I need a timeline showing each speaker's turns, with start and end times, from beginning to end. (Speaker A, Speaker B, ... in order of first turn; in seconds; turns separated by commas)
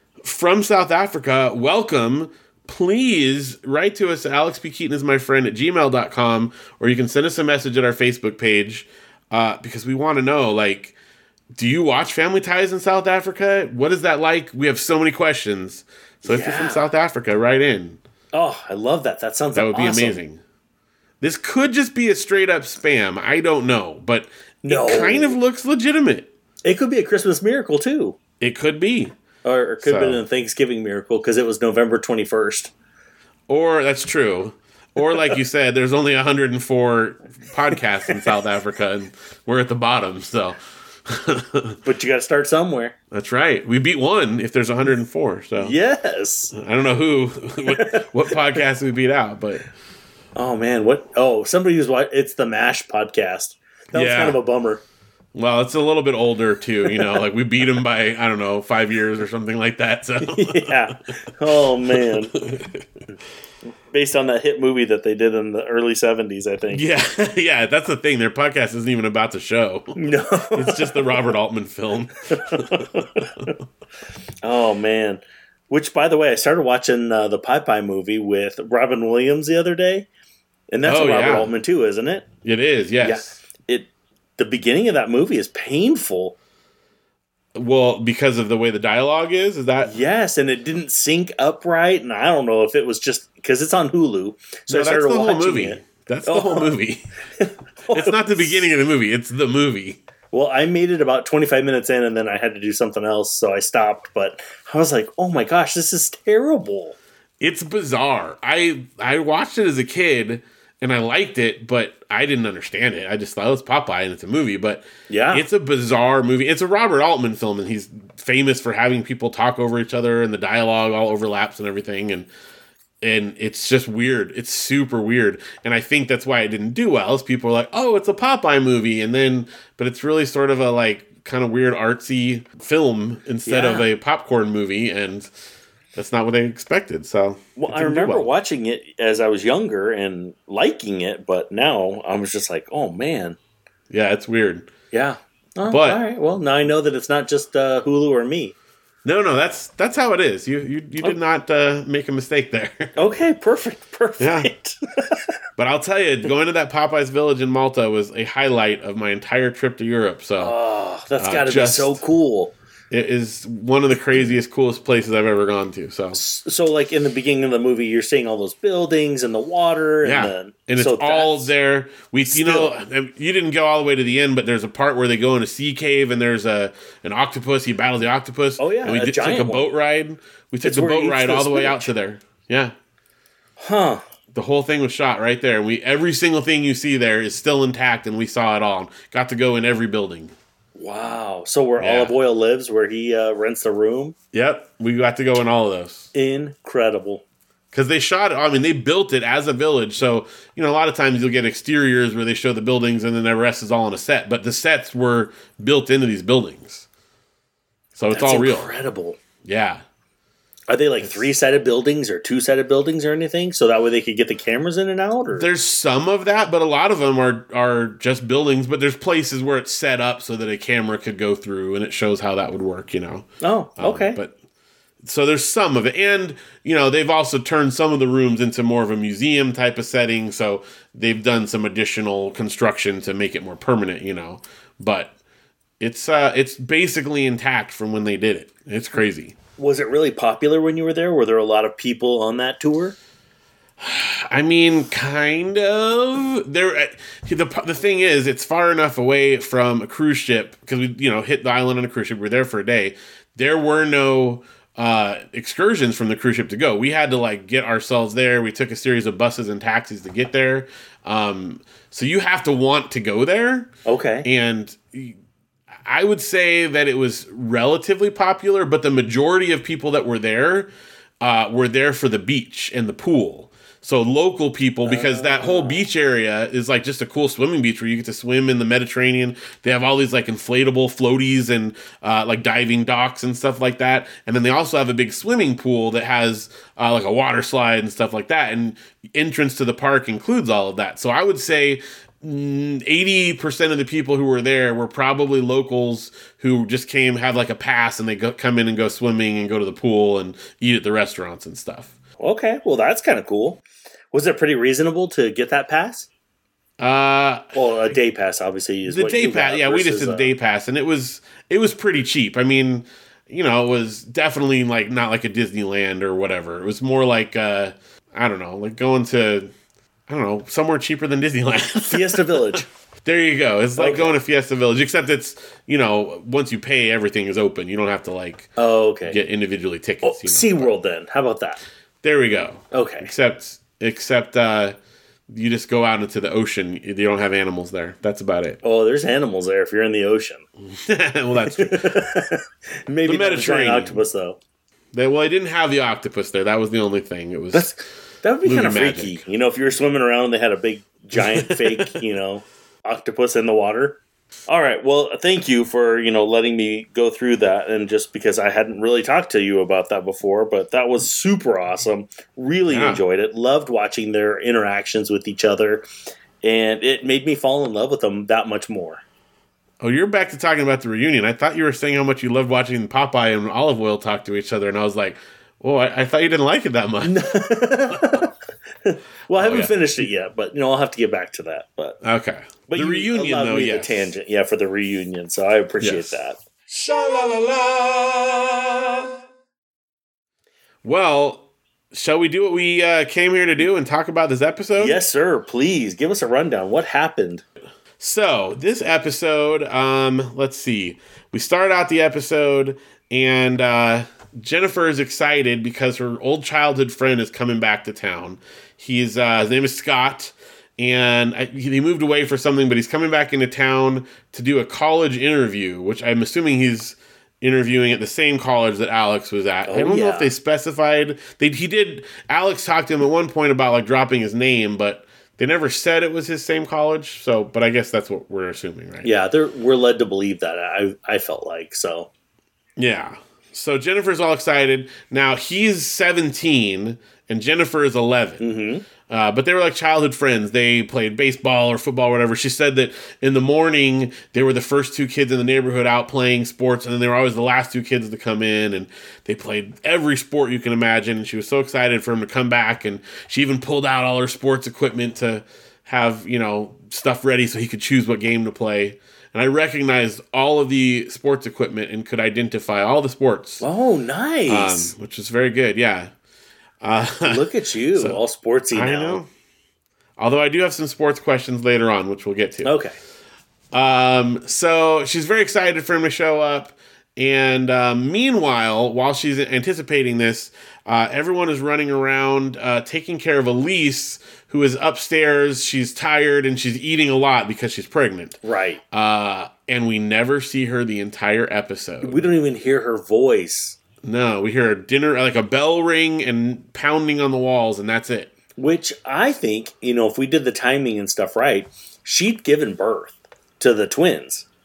Speaker A: 0.2-10.9, Speaker A: 11.5-18.0, Speaker B: 16.2-16.9, Speaker B: 18.3-20.2, Speaker A: 19.5-20.4, Speaker A: 21.2-26.3, Speaker B: 24.6-25.4, Speaker B: 26.6-28.2, Speaker A: 28.4-29.2, Speaker B: 29.4-32.7, Speaker A: 29.8-30.2, Speaker A: 33.5-41.8, Speaker B: 38.1-38.4, Speaker B: 41.8-43.0, Speaker A: 43.1-45.8, Speaker B: 45.6-46.5, Speaker A: 46.5-49.6, Speaker B: 47.7-48.6, Speaker B: 50.4-54.8, Speaker A: 53.9-54.4, Speaker A: 55.4-60.9, Speaker B: 60.2-62.3, Speaker A: 61.5-62.8, Speaker B: 63.9-66.8, Speaker A: 66.7-70.0, Speaker B: 70.0-71.2, Speaker A: 70.5-73.5, Speaker B: 72.3-73.5, Speaker B: 74.4-80.1, Speaker B: 80.7-82.3, Speaker A: 80.8-81.5, Speaker A: 82.4-83.3, Speaker B: 83.0-86.4, Speaker A: 87.5-89.9, Speaker B: 89.8-96.7, Speaker A: 94.7-97.1, Speaker B: 97.4-98.7, Speaker A: 97.9-100.0, Speaker B: 100.3-107.0, Speaker A: 107.4-122.3, Speaker B: 115.1-115.5, Speaker A: 123.0-135.3, Speaker B: 133.5-133.9, Speaker A: 135.9-138.3, Speaker B: 137.6-143.4, Speaker A: 143.9-144.7, Speaker B: 144.9-148.6, Speaker A: 145.7-146.0, Speaker A: 149.1-153.0, Speaker B: 153.0-155.2, Speaker A: 154.2-154.5, Speaker A: 155.6-160.6, Speaker B: 160.4-162.5, Speaker A: 161.2-162.0, Speaker A: 162.9-166.2, Speaker B: 166.1-171.5, Speaker A: 170.0-182.8, Speaker B: 172.3-172.7, Speaker B: 178.6-179.7, Speaker B: 180.6-181.9, Speaker B: 183.6-184.0, Speaker A: 184.3-190.3, Speaker B: 190.8-194.2, Speaker A: 191.8-192.2, Speaker A: 194.3-196.1, Speaker B: 196.1-197.2, Speaker A: 197.7-206.9, Speaker A: 208.0-208.7, Speaker B: 208.1-209.2, Speaker A: 209.4-209.8, Speaker B: 210.7-215.5, Speaker A: 215.3-224.3, Speaker B: 223.4-224.2, Speaker A: 225.0-235.1, Speaker A: 235.8-239.3, Speaker B: 239.6-243.0, Speaker A: 243.8-263.7, Speaker B: 263.9-264.3, Speaker A: 264.2-265.2, Speaker A: 265.9-270.7, Speaker A: 271.2-301.9, Speaker B: 274.9-275.8, Speaker B: 302.2-306.1, Speaker A: 306.8-307.6, Speaker B: 307.5-310.3, Speaker A: 308.9-319.5, Speaker A: 320.1-328.5, Speaker B: 321.9-322.7, Speaker B: 323.8-324.1, Speaker B: 328.6-329.2, Speaker A: 329.1-330.7, Speaker B: 330.0-331.6, Speaker A: 332.0-334.8, Speaker B: 332.7-333.1, Speaker A: 335.3-338.6, Speaker B: 338.6-340.4, Speaker A: 340.6-342.1, Speaker B: 341.4-344.4, Speaker A: 343.1-344.0, Speaker A: 344.9-347.7, Speaker B: 347.5-365.9, Speaker A: 348.4-349.2, Speaker A: 351.1-352.0, Speaker A: 362.7-363.0, Speaker B: 366.4-369.0, Speaker A: 369.8-378.1, Speaker B: 377.0-378.3, Speaker B: 378.8-382.0, Speaker A: 379.4-379.8, Speaker A: 382.0-384.1, Speaker B: 382.7-386.4, Speaker A: 385.8-386.1, Speaker C: 386.7-389.2, Speaker A: 390.8-395.0, Speaker B: 394.8-397.4, Speaker A: 398.0-429.1, Speaker B: 419.7-420.3, Speaker B: 429.0-432.1, Speaker A: 432.8-438.4, Speaker B: 438.4-438.8, Speaker A: 439.1-463.6, Speaker B: 463.6-464.9, Speaker A: 464.5-466.1, Speaker A: 466.8-468.2, Speaker B: 467.2-469.2, Speaker A: 468.7-469.3, Speaker A: 470.2-472.7, Speaker B: 472.6-473.0, Speaker A: 473.7-488.4, Speaker B: 488.4-488.8, Speaker A: 488.9-492.3, Speaker B: 492.0-493.8, Speaker A: 494.0-498.3, Speaker B: 498.6-504.5